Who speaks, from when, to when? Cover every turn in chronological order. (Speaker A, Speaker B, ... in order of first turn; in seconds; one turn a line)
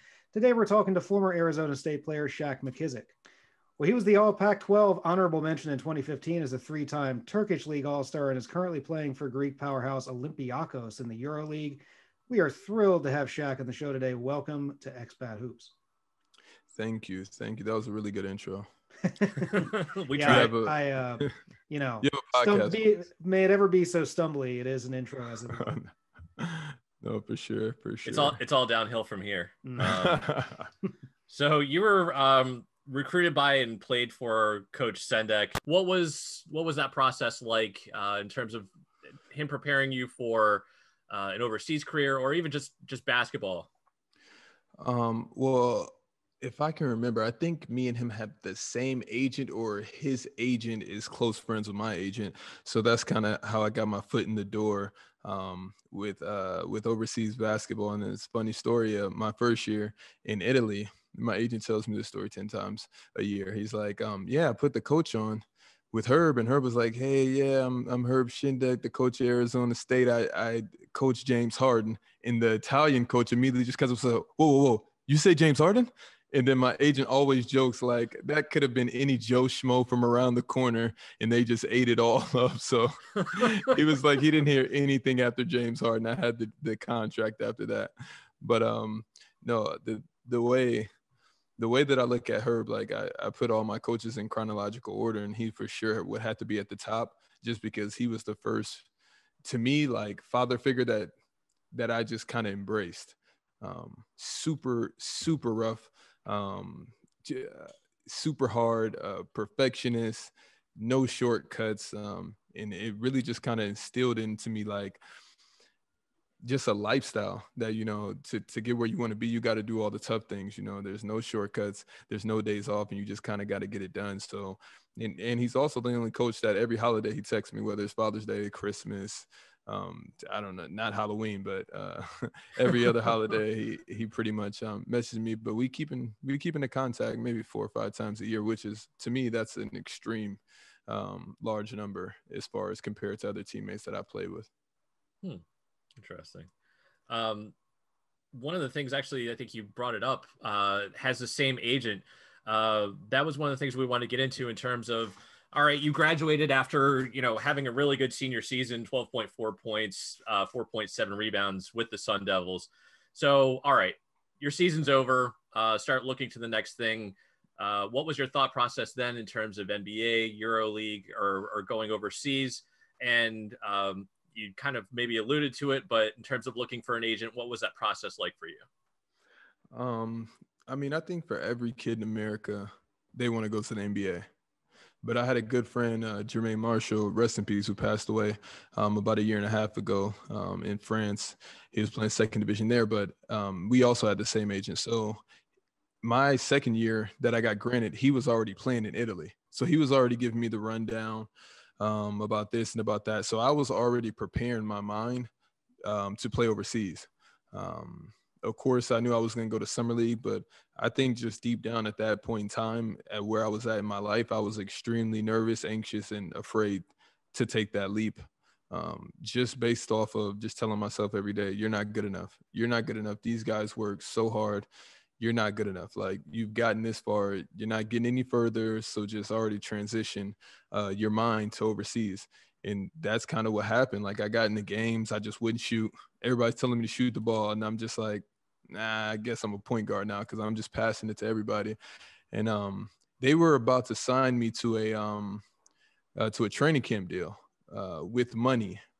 Speaker A: 0.3-3.1
Speaker A: 3.8-15.7
Speaker B: 16.7-18.7
Speaker A: 19.1-25.7
Speaker C: 19.5-20.6
Speaker B: 20.2-21.3
Speaker B: 22.0-22.8
Speaker B: 25.5-28.4
Speaker C: 28.0-30.2
Speaker B: 29.8-30.7
Speaker C: 31.3-38.7
Speaker C: 39.3-43.7
Speaker B: 44.8-90.9
Speaker B: 91.6-98.9
Speaker B: 99.4-101.1
Speaker B: 101.7-115.0
Speaker B: 116.4-144.5
Speaker C: 146.0-146.5
Speaker C: 147.1-147.5
Speaker C: 148.3-178.6
Speaker B: 179.7-184.3
Speaker B: 185.0-195.2
Speaker B: 196.0-205.3
Speaker B: 205.8-224.7
Speaker B: 225.2-241.8
Speaker B: 242.3-245.4
Speaker B: 246.2-248.8